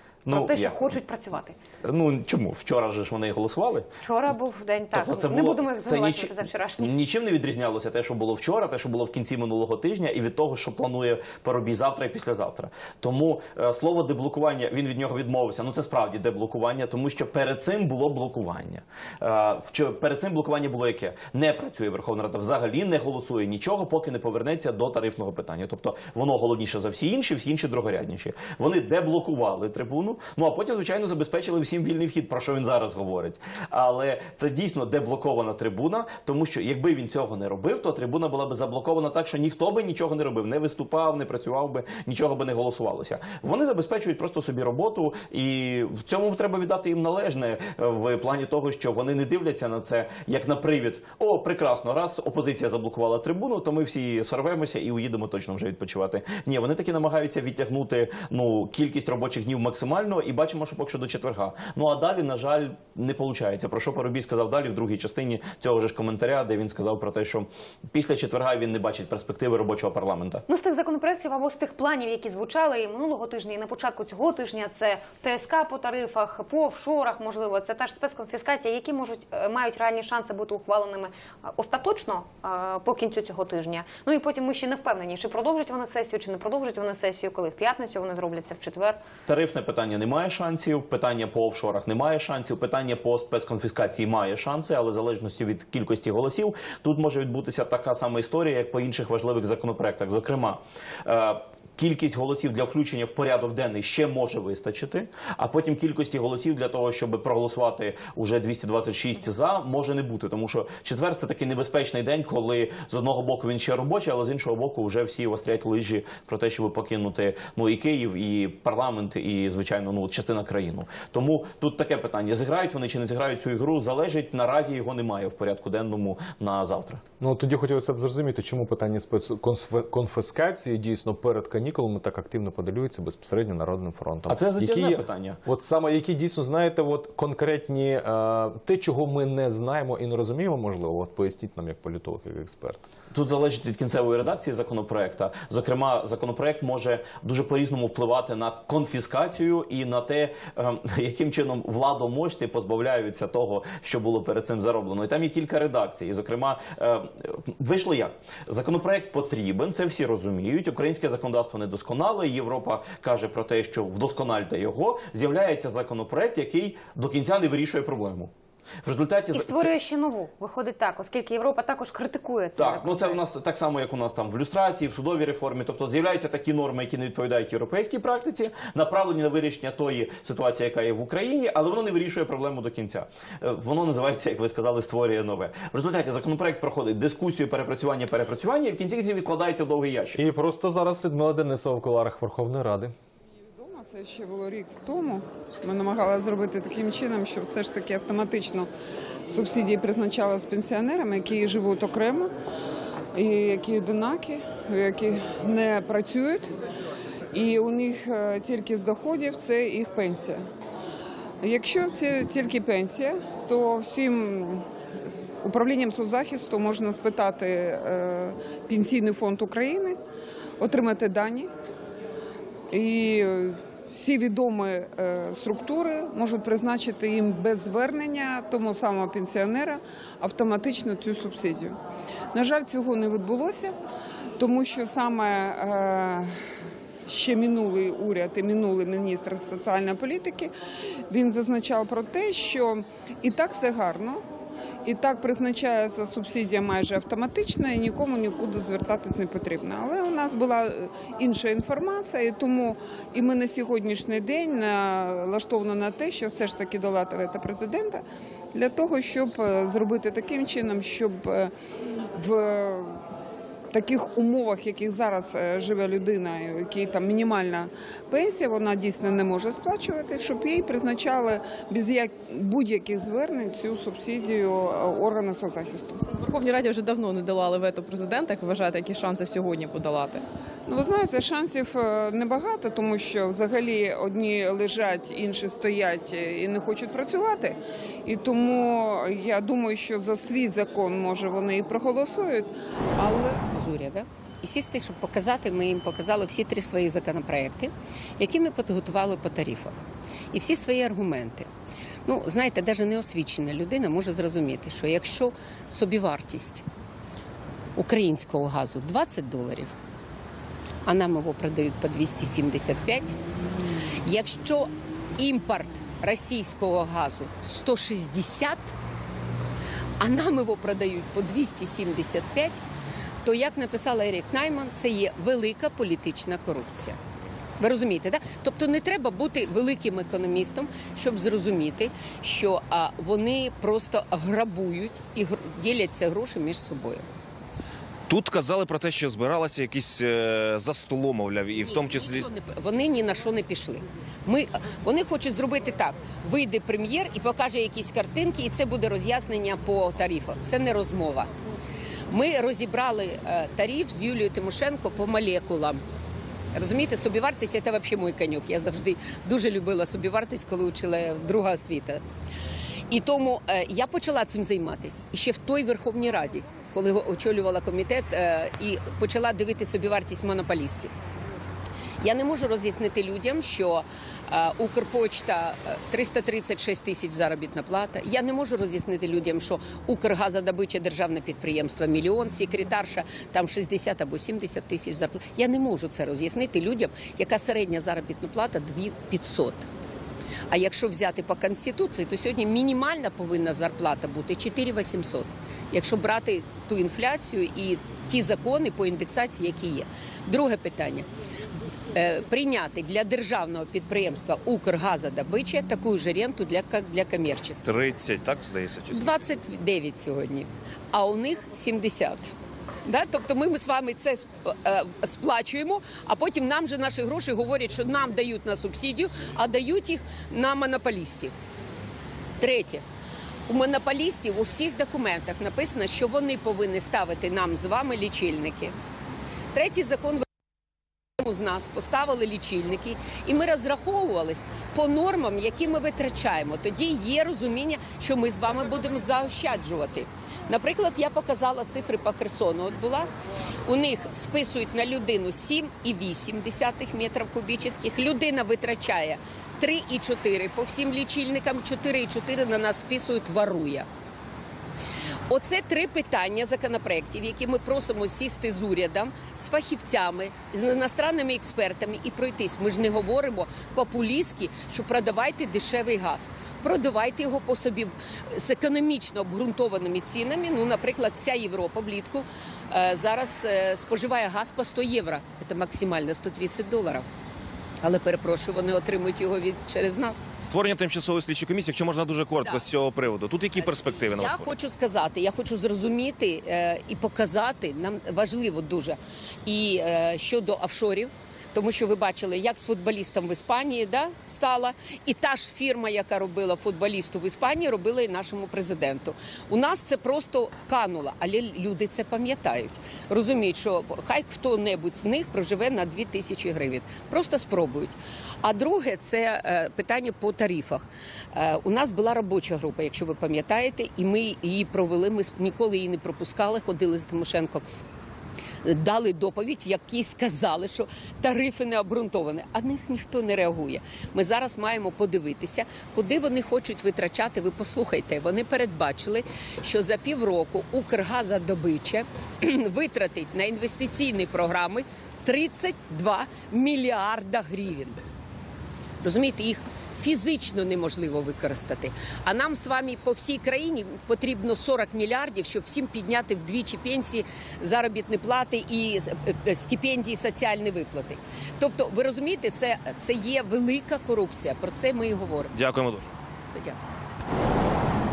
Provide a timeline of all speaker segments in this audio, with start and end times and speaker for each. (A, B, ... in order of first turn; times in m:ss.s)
0:00.3-0:00.9 A
0:00.3-0:01.6 B
0:01.8-0:03.9 A
0:04.0-0:06.9 B
0:04.9-1:10.4 A
1:10.5-1:29.0 B
1:29.3-2:07.0 A
2:07.2-2:22.9 C
2:14.3-2:15.4 A
2:23.1-2:48.3 A
2:48.8-2:49.7 A
2:49.3-2:53.2 B
2:52.6-3:10.2 A
3:10.2-3:12.9 C
3:13.4-3:18.7 D
3:19.3-3:22.3 D
3:23.2-3:26.5 D
3:27.3-3:30.4 D
3:31.4-3:34.6 D
3:35.4-3:40.0 D
3:40.6-3:41.5 D
3:42.7-3:51.8 D
3:52.3-3:53.8 D
3:54.4-3:56.3 D
3:57.1-4:00.5 D
4:01.1-4:04.2 D
4:04.8-4:18.0 D
4:18.5-4:21.5 D
4:22.2-4:23.0 D
4:23.7-4:36.0 D
4:36.1-4:40.2 E
4:40.7-4:53.4 D
4:53.5-4:59.8 F
5:00.3-5:01.5 F
5:02.1-5:06.6 F
5:07.8-5:09.7 F
5:10.8-5:13.2 F
5:14.0-5:18.7 F
5:20.0-5:22.6 F
5:23.2-5:27.0 F
5:27.6-5:37.0 F
5:38.1-5:42.3 G
5:41.6-5:51.3 F
5:52.1-5:55.8 F
5:56.5-6:02.0 F
6:02.9-6:10.9 F
6:12.0-6:29.7 F
6:30.5-6:41.1 F
6:41.9-6:47.7 F
6:47.6-6:49.2 G
6:48.9-6:52.3 F
6:52.8-7:01.3 F
7:02.4-7:02.8 F
7:03.5-7:08.8 F
7:09.5-7:10.2 F
7:11.2-7:23.1 F
7:23.7-7:33.9 F
7:35.3-7:57.1 F
7:57.8-8:00.3 F
8:00.4-8:04.6 G
8:03.6-8:37.6 F
8:38.6-8:58.0 F
8:59.0-9:15.6 F
9:15.5-9:16.1 G